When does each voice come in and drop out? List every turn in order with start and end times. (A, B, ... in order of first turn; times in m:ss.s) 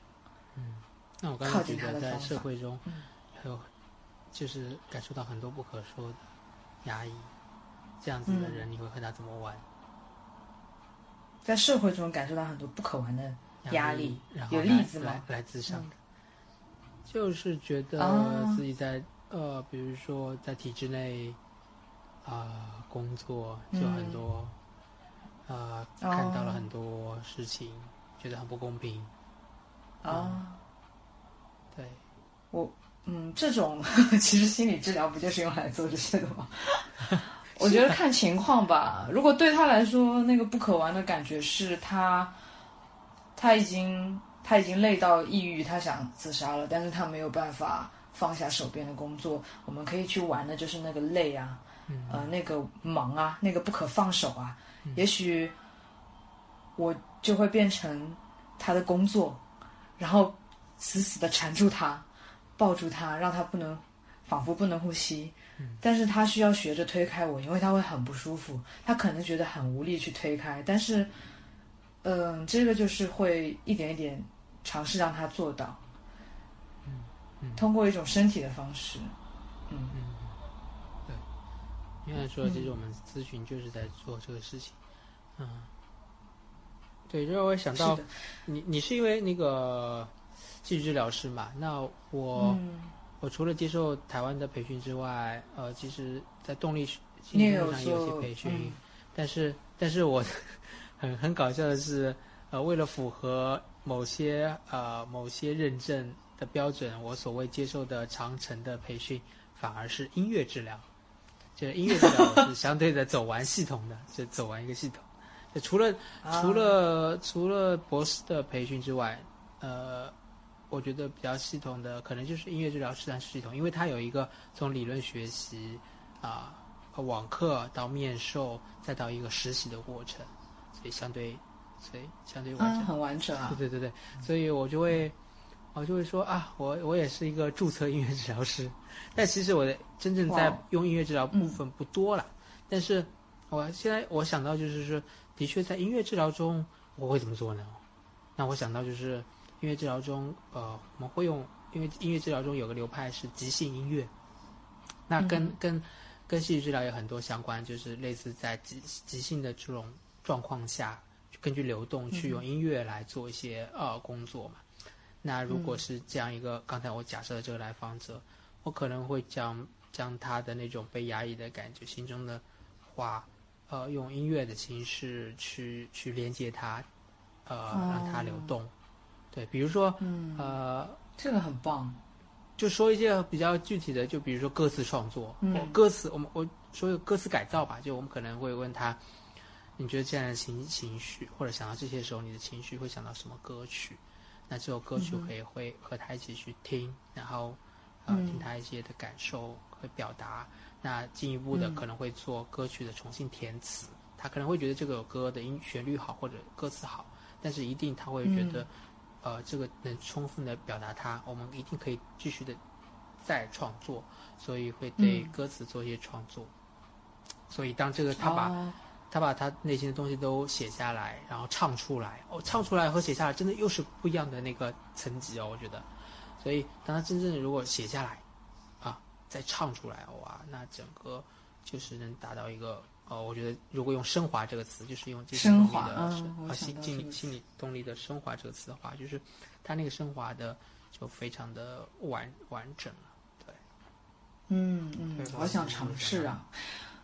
0:00.6-0:03.7 A
0:01.4-0:03.1 B
0:04.3-0:06.2 A
0:06.8-0:07.3 A
0:08.0-0:09.6 A
0:08.2-0:08.6 B
0:11.4-0:15.9 B
0:13.6-0:16.0 A
0:17.0-0:21.4 A
0:18.0-0:18.6 B
0:22.2-0:24.5 A
0:23.7-0:24.2 B
0:25.5-0:29.1 A
0:26.0-0:26.6 B
0:30.0-0:30.6 B
0:30.1-0:30.4 A
0:31.7-0:32.0 A
0:32.5-0:37.0 B
0:37.1-0:37.9 A
0:37.5-0:42.3 B
0:43.4-0:55.5 B
0:51.9-0:52.3 A
0:56.8-0:59.4 B
1:00.0-1:02.1 B
1:02.6-1:11.1 B
1:12.0-1:15.8 B
1:16.8-1:17.7 A
1:17.6-1:19.1 B
1:19.7-1:19.9 B
1:19.9-1:20.4 A
1:22.0-1:24.8 A
1:22.4-1:22.7 B
1:25.4-1:25.7 A
1:27.1-1:32.6 A
1:27.8-1:28.1 B
1:32.4-1:32.9 B
1:33.2-1:50.9 A
1:37.3-1:38.8 B
1:51.6-2:00.1 A
1:51.9-1:52.4 B
1:56.2-1:56.7 B
2:00.7-2:12.9 A
2:12.6-2:13.6 B
2:13.4-2:15.2 A
2:15.7-2:27.8 A
2:20.3-2:20.6 B
2:21.3-2:21.6 B
2:28.4-2:34.1 A
2:35.1-2:44.6 A
2:35.2-2:35.5 B
2:42.1-2:42.4 B
2:45.2-2:56.9 A
2:45.5-2:45.8 B
2:57.4-2:58.7 A
2:57.7-2:58.5 B
2:59.3-3:01.0 A
3:00.0-3:00.6 B
3:01.2-3:02.0 B
3:02.6-3:09.0 A
3:05.4-3:05.8 B
3:09.8-3:28.7 A
3:15.0-3:15.3 B
3:18.1-3:18.5 B
3:21.5-3:21.8 B
3:28.2-3:28.6 B
3:29.2-3:32.6 A
3:33.2-3:36.5 A
3:35.0-3:35.3 B
3:37.5-3:38.6 A
3:38.2-3:38.8 B
3:39.1-3:45.9 A
3:46.4-3:48.2 A
3:48.8-4:03.6 A
3:55.3-3:57.2 B
4:04.5-4:06.5 B
4:05.1-4:06.3 A